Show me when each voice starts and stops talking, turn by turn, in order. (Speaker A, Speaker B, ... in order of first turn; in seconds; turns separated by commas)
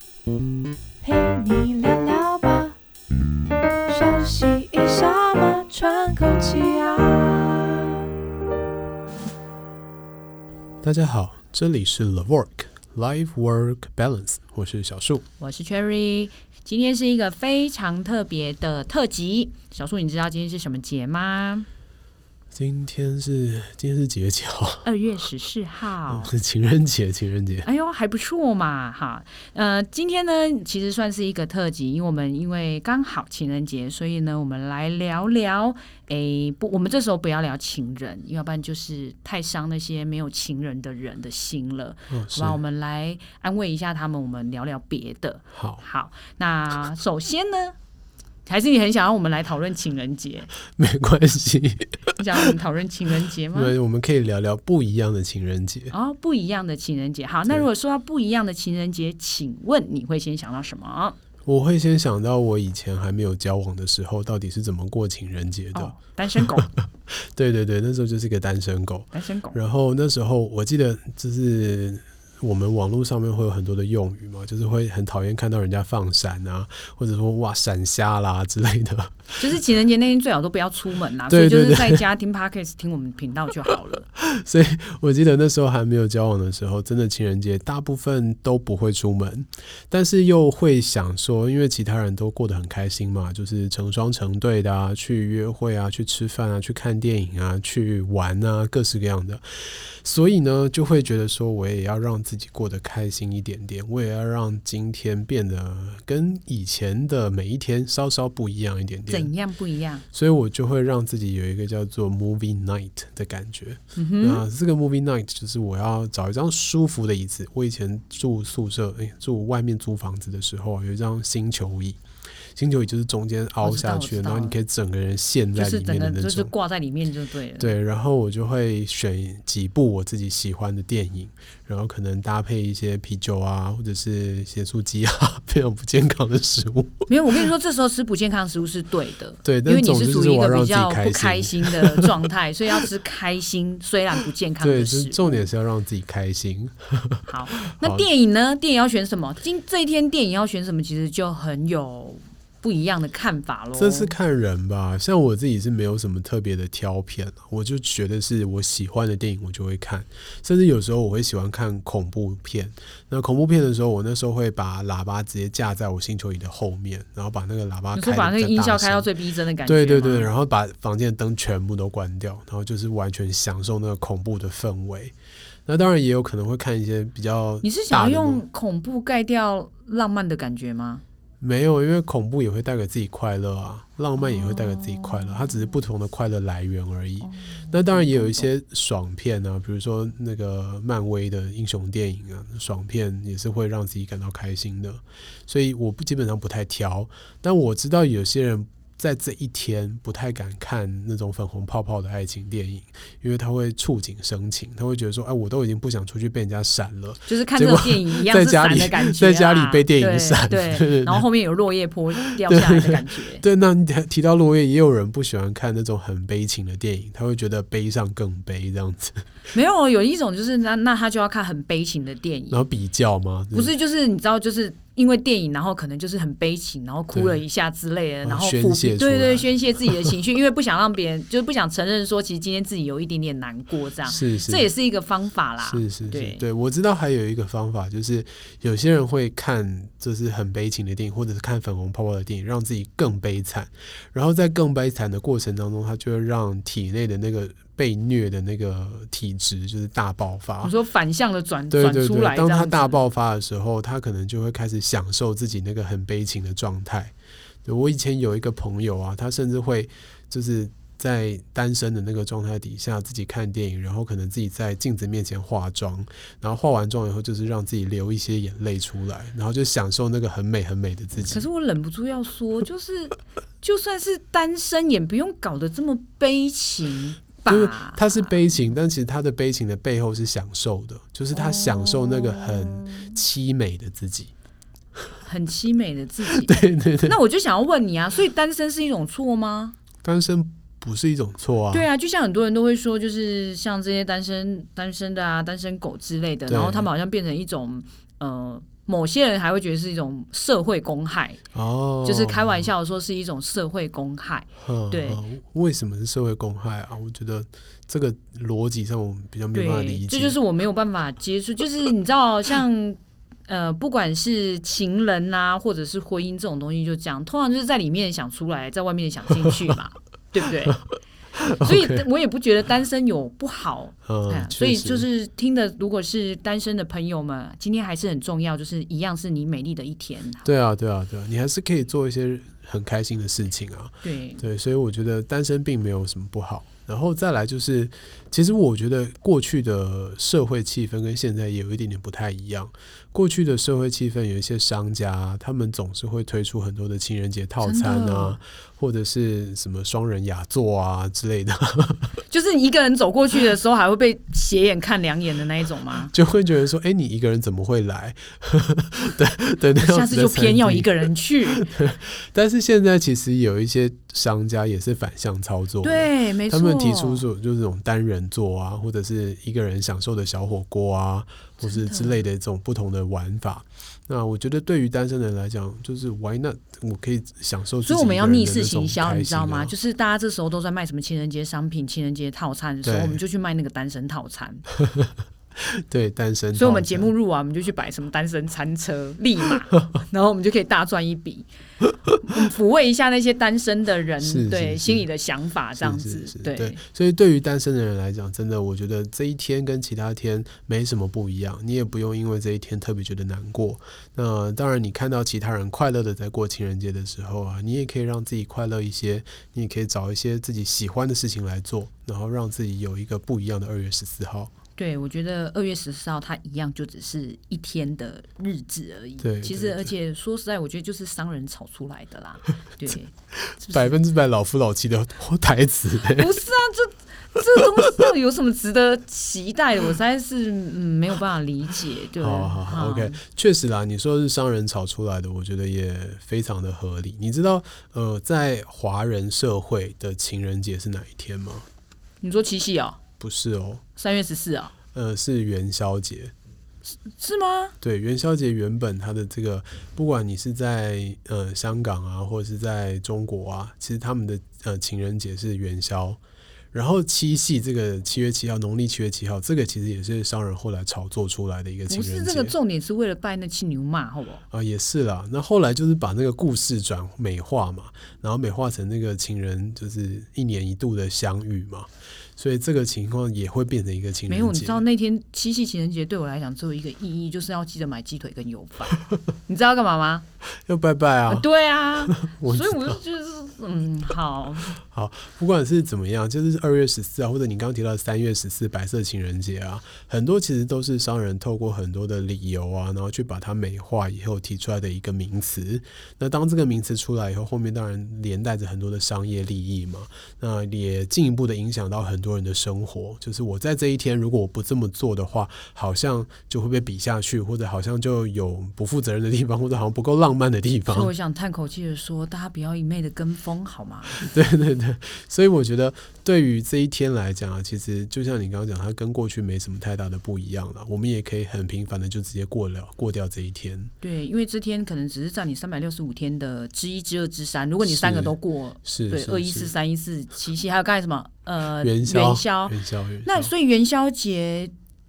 Speaker A: 1.0-2.7, Speaker B: 1.1-1.9, Speaker A: 3.9-7.9, Speaker B: 6.3-7.0, Speaker C: 10.8-15.2, Speaker B: 15.4-21.7, Speaker C: 22.5-24.9, Speaker B: 24.8-26.3, Speaker C: 26.1-27.7, Speaker B: 27.6-47.7, Speaker C: 42.1-42.6, Speaker C: 45.5-45.8, Speaker B: 48.5-50.5, Speaker C: 50.8-52.5, Speaker B: 52.2-53.8, Speaker C: 53.5-55.9, Speaker B: 55.9-61.2, Speaker C: 61.5-79.4, Speaker B: 65.7-66.7, Speaker B: 69.1-69.6, Speaker B: 79.4-84.1, Speaker C: 81.3-82.1, Speaker C: 84.2-109.3, Speaker B: 109.1-110.0, Speaker C: 110.1-122.0, Speaker B: 114.0-114.4, Speaker C: 122.5-126.5, Speaker B: 123.6-124.6, Speaker B: 125.5-127.7, Speaker C: 127.6-137.1, Speaker B: 137.1-145.5, Speaker C: 139.4-142.9, Speaker C: 144.6-148.1, Speaker B: 147.3-154.1, Speaker C: 153.7-169.1, Speaker B: 167.9-170.3, Speaker C: 169.6-175.1, Speaker C: 175.7-178.4, Speaker B: 177.6-181.0, Speaker C: 181.4-211.2, Speaker B: 184.2-185.7, Speaker B: 187.2-188.5, Speaker B: 207.3-213.4, Speaker C: 212.4-219.2, Speaker B: 219.5-222.6, Speaker C: 222.5-223.7, Speaker B: 223.5-236.4, Speaker C: 227.1-227.4, Speaker C: 228.2-230.1, Speaker C: 234.0-234.7, Speaker C: 235.6-250.7, Speaker B: 250.6-253.0, Speaker C: 251.7-257.1, Speaker C: 257.6-271.5, Speaker B: 271.3-278.4, Speaker C: 277.4-284.3, Speaker B: 281.3-283.2, Speaker B: 285.2-289.8, Speaker C: 286.2-287.1, Speaker C: 290.0-291.9, Speaker B: 291.7-301.4, Speaker C: 296.5-296.9, Speaker C: 301.5-302.7, Speaker B: 302.0-305.2, Speaker C: 304.6-310.4, Speaker B: 309.5-320.8, Speaker C: 321.4-322.0, Speaker B: 321.6-330.5, Speaker C: 324.1-325.1, Speaker C: 330.4-352.1, Speaker B: 334.0-334.4, Speaker B: 347.6-348.4, Speaker B: 352.3-356.1, Speaker C: 356.1-379.7, Speaker B: 359.8-361.7, Speaker B: 365.8-367.2, Speaker B: 371.6-372.2, Speaker B: 377.8-384.6, Speaker C: 382.8-383.2, Speaker C: 385.7-387.1, Speaker B: 386.5-391.5, Speaker B: 392.2-396.8, Speaker C: 394.2-395.1, Speaker C: 395.8-414.5, Speaker B: 414.8-423.9, Speaker C: 419.2-419.9, Speaker C: 423.5-426.4, Speaker B: 426.0-433.2, Speaker C: 432.2-441.6, Speaker B: 442.2-443.0, Speaker C: 443.2-443.8, Speaker B: 443.9-444.7, Speaker C: 444.9-446.3, Speaker B: 447.1-447.7, Speaker C: 447.8-456.2, Speaker C: 456.7-462.6, Speaker B: 461.9-464.4, Speaker C: 464.5-474.8, Speaker B: 474.3-480.2, Speaker C: 480.6-481.4, Speaker B: 481.3-484.8, Speaker C: 482.0-483.0, Speaker C: 484.8-511.1, Speaker B: 510.9-514.3, Speaker C: 514.2-523.9, Speaker B: 524.0-534.7, Speaker C: 527.8-529.7, Speaker C: 531.8-533.5